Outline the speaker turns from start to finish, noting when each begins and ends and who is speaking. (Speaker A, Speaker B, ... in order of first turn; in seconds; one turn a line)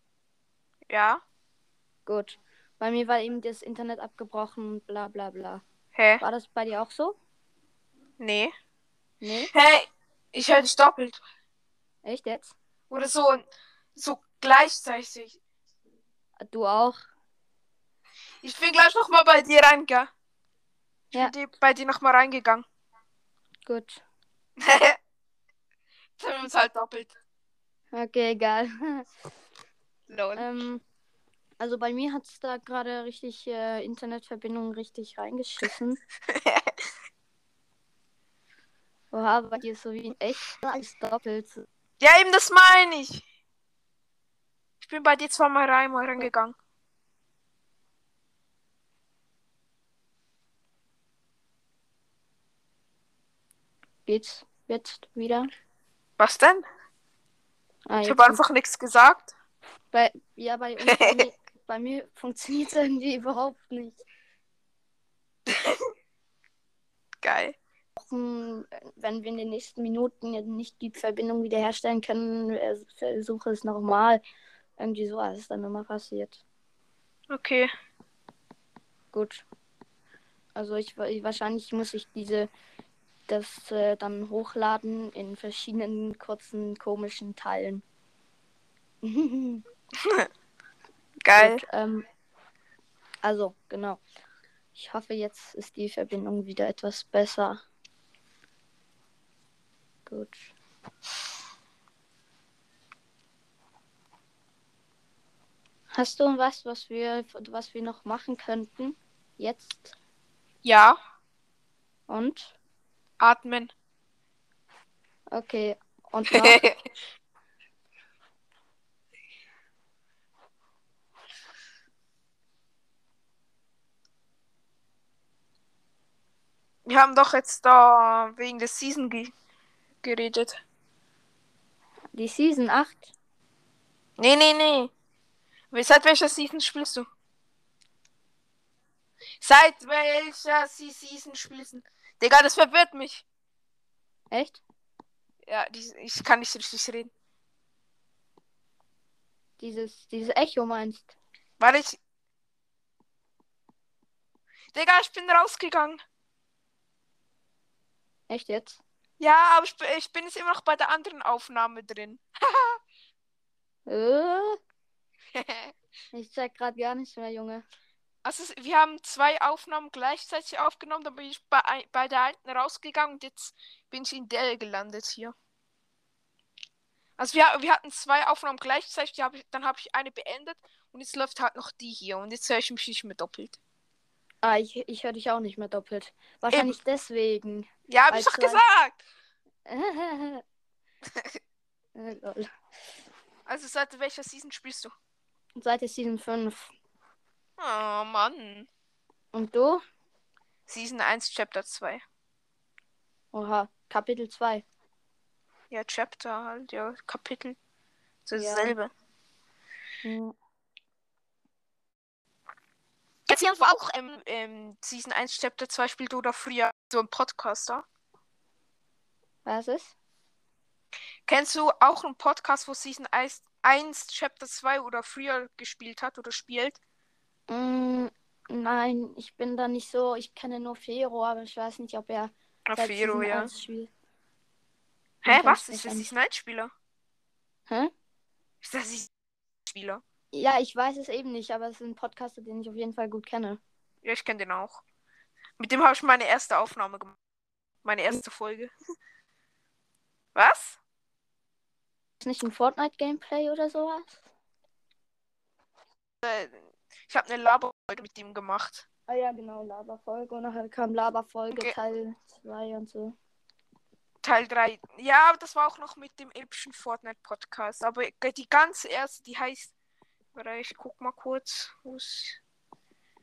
Speaker A: 0.9-1.2
Speaker B: 2.1-5.6
Speaker A: 6.0-6.2
Speaker B: 6.2-7.2
Speaker A: 8.2-8.5
Speaker B: 9.2-9.5
Speaker A: 9.5-11.2
Speaker B: 12.0-12.6
Speaker A: 12.9-15.4
Speaker B: 16.4-17.1
Speaker A: 18.4-20.1
Speaker A: 21.1-22.6
Speaker B: 23.7-24.0
Speaker A: 24.6-25.0
Speaker A: 26.2-27.1
Speaker B: 27.9-29.1
Speaker A: 30.1-30.7
Speaker B: 30.4-30.8
Speaker B: 31.6-36.0
Speaker A: 36.3-36.7
Speaker B: 39.1-41.7
Speaker A: 42.0-43.2
Speaker A: 44.8-46.5
Speaker B: 54.1-55.5
Speaker A: 56.2-56.6
Speaker B: 57.9-58.4
Speaker A: 58.0-59.3
Speaker B: 59.9-64.0
Speaker A: 60.8-61.2
Speaker A: 65.5-65.8
Speaker A: 67.2-67.6
Speaker B: 68.0-74.2
Speaker B: 74.8-76.4
Speaker A: 77.3-77.7
Speaker B: 79.1-79.4
Speaker B: 80.6-82.5
Speaker B: 83.3-87.8
Speaker B: 89.0-89.6
Speaker A: 91.2-91.6
Speaker B: 91.4-92.1
Speaker B: 93.2-94.0
Speaker B: 94.8-97.6
Speaker B: 100.1-100.5
Speaker B: 105.9-110.0
Speaker A: 110.6-111.0
Speaker B: 112.1-112.6
Speaker A: 113.2-113.7
Speaker B: 115.3-116.6
Speaker A: 116.3-116.7
Speaker A: 126.9-129.3
Speaker A: 130.0-130.6
Speaker B: 132.1-133.1
Speaker A: 134.2-134.9
Speaker A: 135.7-137.1
Speaker A: 139.4-143.2
Speaker B: 144.3-144.6
Speaker A: 145.5-147.1
Speaker B: 149.6-151.2
Speaker A: 151.6-152.0
Speaker A: 154.7-156.0
Speaker B: 158.3-158.8
Speaker A: 159.2-162.8
Speaker B: 163.9-164.6
Speaker A: 165.3-165.7
Speaker B: 166.1-167.7
Speaker A: 168.2-175.3
Speaker A: 177.2-183.6
Speaker B: 184.4-188.6
Speaker A: 186.5-186.8
Speaker A: 187.9-189.0
Speaker B: 189.7-190.4
Speaker B: 191.9-192.5
Speaker A: 193.5-194.9
Speaker B: 195.6-196.7
Speaker A: 197.6-198.7
Speaker B: 199.3-199.8
Speaker A: 200.7-202.0
Speaker B: 203.3-204.7
Speaker A: 205.7-207.6
Speaker A: 208.3-208.9
Speaker B: 208.3-208.8
Speaker B: 210.0-210.3
Speaker A: 213.3-217.8
Speaker B: 219.4-219.9
Speaker A: 221.3-226.8
Speaker B: 227.5-233.9
Speaker A: 232.7-233.5
Speaker A: 235.2-236.7
Speaker B: 235.3-236.1
Speaker A: 238.6-239.1
Speaker A: 239.7-240.0
Speaker B: 240.3-243.6
Speaker A: 244.0-244.8
Speaker A: 245.6-247.2
Speaker A: 247.8-248.7
Speaker A: 250.3-250.8
Speaker B: 252.2-254.2
Speaker A: 256.2-258.9
Speaker B: 259.1-263.1
Speaker A: 264.2-269.7
Speaker A: 270.3-272.4